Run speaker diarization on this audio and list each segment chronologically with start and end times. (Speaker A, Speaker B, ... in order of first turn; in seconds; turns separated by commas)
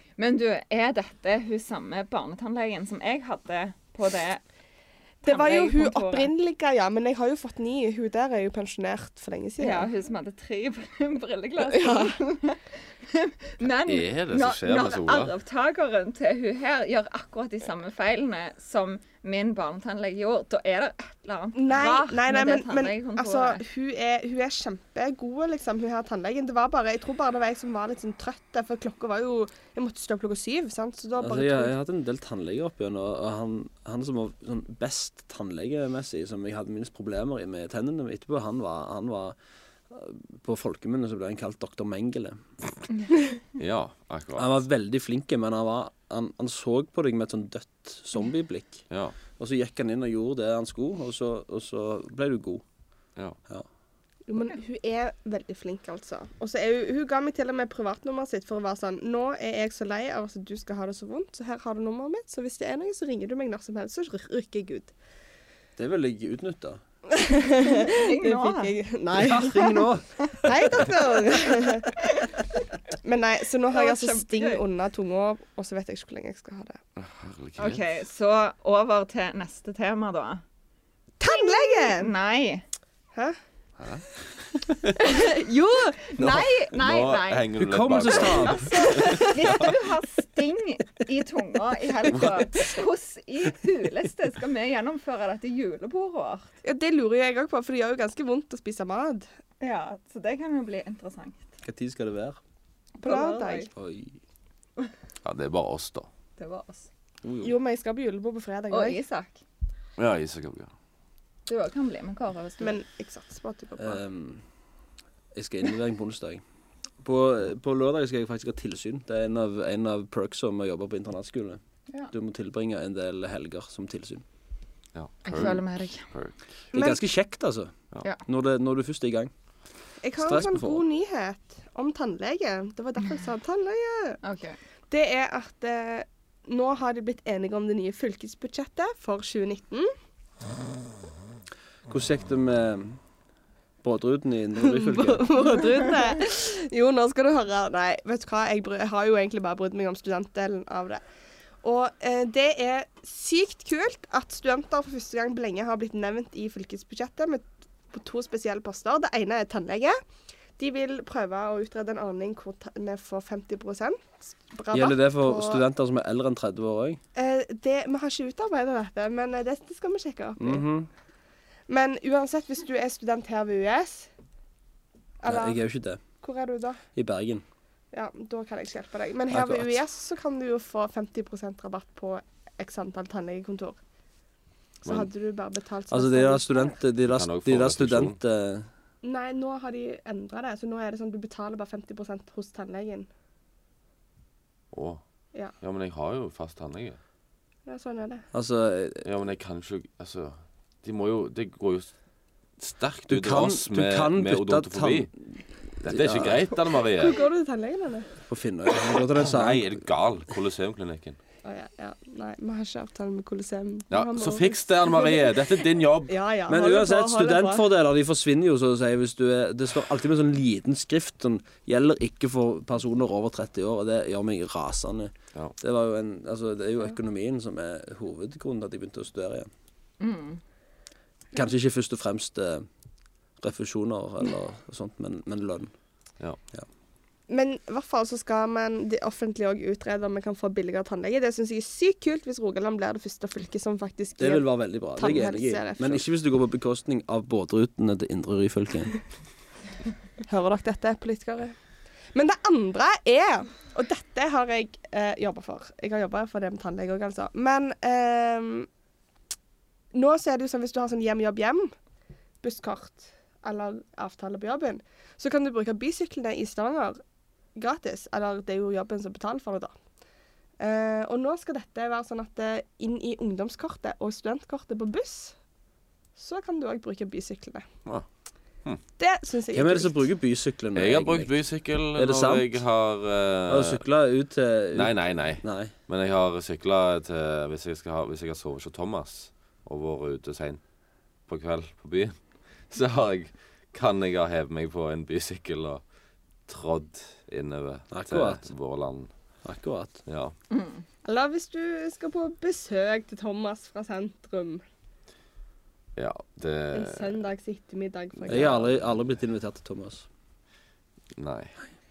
Speaker A: 0.2-4.4, Speaker A: 5.2-6.3, Speaker B: 5.2-9.9, Speaker A: 9.6-23.6, Speaker B: 11.6-12.2, Speaker C: 13.8-15.3, Speaker B: 21.5-31.7, Speaker D: 31.2-39.4, Speaker D: 39.9-42.4, Speaker C: 43.5-44.6, Speaker D: 44.4-52.6, Speaker C: 48.9-49.2, Speaker B: 54.3-64.9, Speaker D: 65.8-66.8, Speaker B: 67.1-69.9, Speaker A: 67.6-68.8, Speaker D: 69.1-70.9, Speaker B: 70.4-72.0, Speaker A: 72.0-72.4, Speaker B: 73.0-76.8, Speaker A: 73.7-74.6, Speaker C: 77.0-77.8, Speaker A: 77.6-80.4, Speaker B: 81.2-82.1, Speaker A: 81.2-82.6, Speaker C: 83.8-85.0, Speaker B: 85.0-85.9, Speaker A: 85.9-87.5, Speaker C: 86.2-89.7, Speaker D: 87.6-89.2, Speaker A: 88.0-96.5, Speaker B: 96.6-99.2, Speaker A: 99.6-101.4, Speaker D: 101.6-102.4, Speaker B: 103.0-103.7, Speaker A: 103.0-103.7, Speaker D: 103.7-104.2, Speaker C: 105.2-106.1, Speaker A: 106.4-106.9, Speaker D: 107.2-107.5, Speaker B: 107.4-109.0, Speaker A: 108.7-109.4, Speaker C: 110.0-110.7, Speaker A: 111.5-112.8, Speaker B: 112.6-114.0, Speaker D: 113.8-114.4, Speaker D: 115.3-116.4, Speaker D: 117.0-121.6, Speaker D: 122.1-124.2, Speaker C: 124.9-126.3, Speaker A: 125.2-126.1, Speaker B: 126.7-127.0, Speaker D: 126.7-129.3, Speaker B: 130.0-134.2, Speaker D: 130.2-130.8, Speaker A: 134.2-134.6, Speaker B: 134.9-139.9, Speaker D: 141.9-143.0, Speaker D: 143.8-145.3, Speaker B: 144.6-151.0, Speaker B: 151.6-160.0, Speaker B: 160.6-165.6, Speaker D: 164.7-167.0, Speaker B: 167.1-170.6, Speaker D: 170.4-170.9, Speaker B: 171.7-174.1, Speaker B: 175.2-175.6, Speaker D: 175.2-176.0, Speaker B: 176.2-176.8, Speaker D: 176.9-177.4, Speaker B: 177.9-183.8, Speaker D: 179.3-179.7, Speaker B: 184.8-186.7, Speaker D: 185.9-188.7, Speaker C: 187.0-188.2, Speaker B: 189.0-193.1, Speaker C: 194.7-195.0, Speaker C: 195.6-197.0, Speaker B: 197.7-198.2, Speaker D: 198.3-199.0, Speaker C: 199.0-201.9, Speaker C: 202.6-205.1, Speaker D: 203.1-206.5, Speaker C: 205.8-207.2, Speaker B: 206.9-208.1, Speaker D: 208.3-209.7, Speaker C: 209.2-211.2, Speaker B: 211.4-217.7, Speaker C: 213.9-216.1, Speaker D: 216.5-229.5, Speaker A: 230.0-230.4, Speaker D: 231.3-232.7, Speaker D: 233.4-235.7, Speaker B: 237.3-246.0, Speaker D: 244.2-249.0, Speaker B: 250.3-251.6, Speaker B: 252.1-258.7, Speaker B: 259.9-261.7, Speaker B: 262.4-267.0, Speaker B: 267.5-269.7, Speaker B: 270.6-275.3, Speaker B: 276.2-277.6, Speaker B: 279.0-280.0, Speaker D: 279.5-281.3, Speaker C: 280.7-283.8, Speaker D: 281.9-282.5, Speaker D: 283.5-285.7, Speaker C: 284.7-290.6, Speaker C: 291.3-292.1, Speaker C: 292.7-295.8, Speaker C: 296.5-299.1, Speaker D: 297.9-298.5, Speaker D: 299.4-300.0, Speaker C: 300.1-300.3, Speaker A: 300.5-300.8, Speaker B: 301.0-304.6, Speaker C: 305.9-307.2, Speaker B: 306.7-308.7, Speaker C: 308.2-308.8, Speaker D: 308.3-310.1, Speaker C: 311.1-311.5